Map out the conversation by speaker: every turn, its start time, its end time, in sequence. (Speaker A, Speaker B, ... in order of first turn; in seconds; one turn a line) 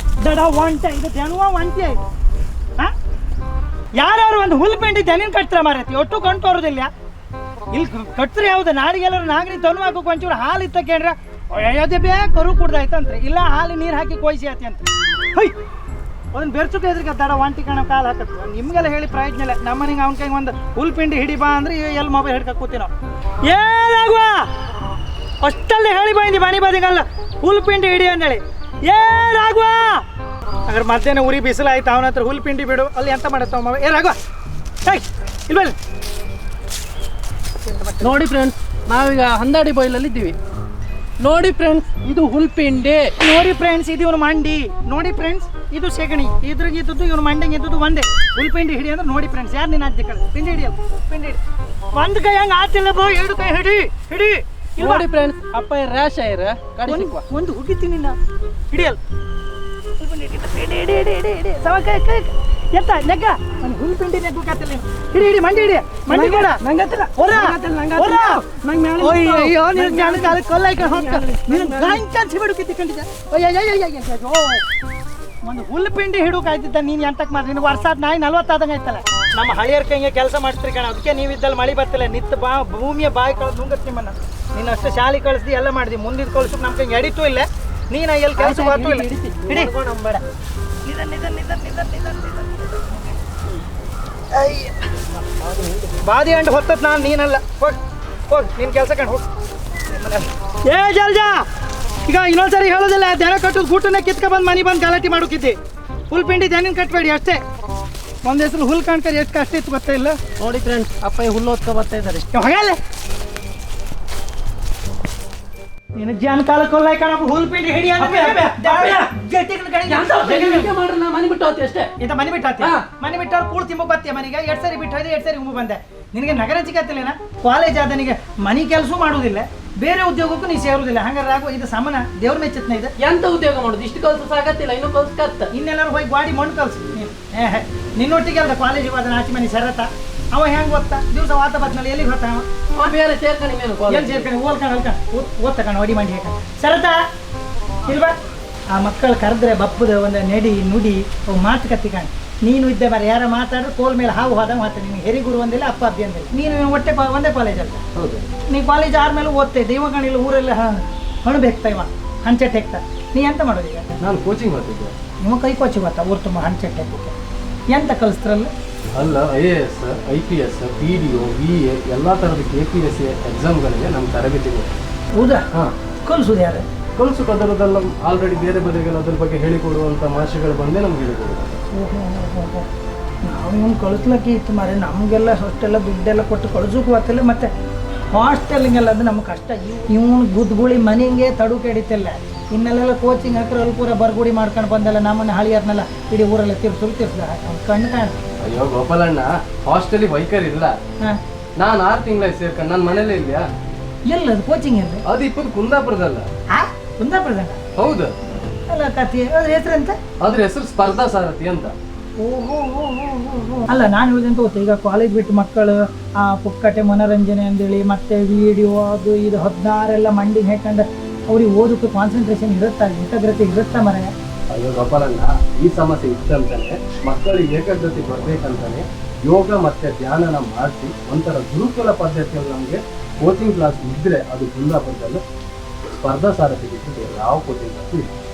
Speaker A: 0.2-2.0
Speaker A: 3.9-6.9
Speaker A: 7.7-14.8
Speaker A: 16.3-22.9
Speaker A: 23.4-24.5
Speaker A: 25.4-30.0
Speaker A: 30.7-34.2
Speaker A: 34.8-35.7
Speaker A: 37.6-38.2
Speaker B: 38.0-40.4
Speaker B: 41.2-43.1
Speaker A: 43.2-51.4
Speaker A: 51.9-55.1
Speaker B: 54.8-57.2
Speaker A: 56.9-58.2
Speaker A: 58.7-59.0
Speaker A: 60.0-66.6
Speaker B: 66.1-72.0
Speaker A: 67.2-68.4
Speaker A: 69.0-74.6
Speaker A: 75.4-89.7
Speaker B: 88.3-90.2
Speaker A: 90.8-92.7
Speaker A: 94.3-94.7
Speaker B: 95.4-95.9
Speaker A: 96.0-99.2
Speaker A: 99.9-101.4
Speaker A: 102.0-105.6
Speaker A: 106.1-107.4
Speaker A: 108.2-110.2
Speaker B: 110.4-112.3
Speaker A: 112.3-112.8
Speaker A: 116.0-120.7
Speaker B: 118.0-119.1
Speaker B: 119.8-121.9
Speaker A: 122.0-132.9
Speaker B: 122.6-122.8
Speaker B: 133.0-135.5
Speaker A: 135.5-142.4
Speaker B: 142.7-144.3
Speaker A: 143.9-147.0
Speaker A: 147.8-148.1
Speaker A: 148.7-157.8
Speaker C: 157.9-158.3
Speaker A: 158.5-163.9
Speaker C: 164.0-164.9
Speaker A: 165.2-167.2
Speaker A: 167.7-168.5
Speaker C: 168.9-174.7
Speaker A: 175.1-175.4
Speaker A: 176.0-176.6
Speaker C: 176.9-181.6
Speaker A: 181.7-182.7
Speaker A: 183.2-187.5
Speaker A: 188.1-198.1
Speaker C: 198.4-200.8
Speaker C: 201.6-203.5
Speaker A: 204.1-205.0
Speaker C: 205.1-206.2
Speaker A: 206.5-207.6
Speaker C: 207.8-208.1
Speaker A: 208.7-210.0
Speaker C: 210.2-211.7
Speaker A: 212.2-224.1
Speaker C: 224.5-235.2
Speaker C: 236.0-238.1